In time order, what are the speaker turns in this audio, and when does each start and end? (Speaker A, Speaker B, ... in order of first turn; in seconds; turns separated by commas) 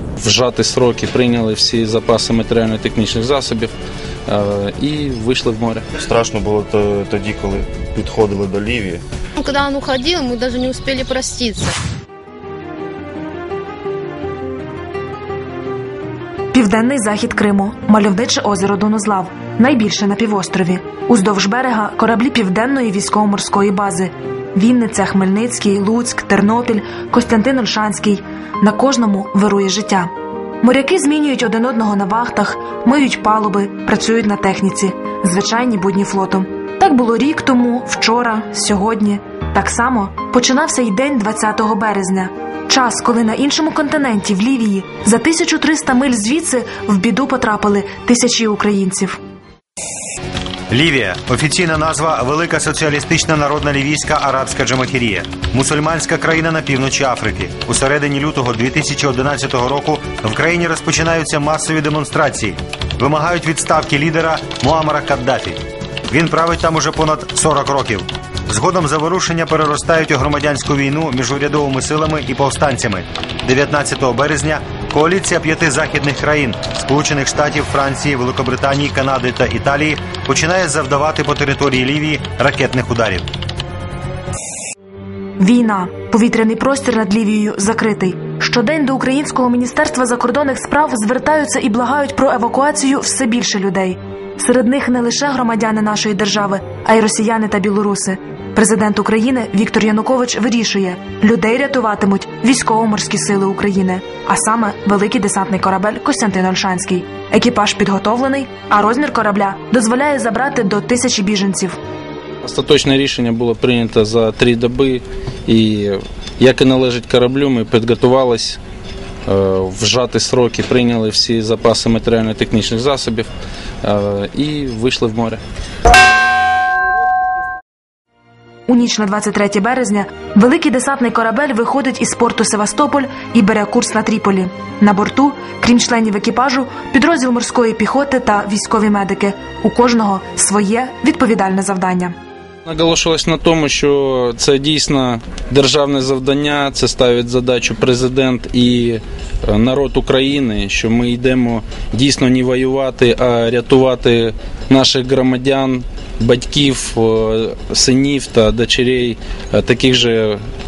Speaker A: 0.2-3.7, Speaker A: 4.3-5.8, Speaker B: 5.9-9.0, Speaker C: 9.4-11.7, Speaker D: 16.5-30.1, Speaker D: 30.6-49.2, Speaker E: 50.7-83.2, Speaker D: 85.4-111.8, Speaker A: 112.4-118.6, Speaker A: 119.3-123.3, Speaker A: 123.8-125.4, Speaker D: 128.7-142.1, Speaker A: 142.7-160.4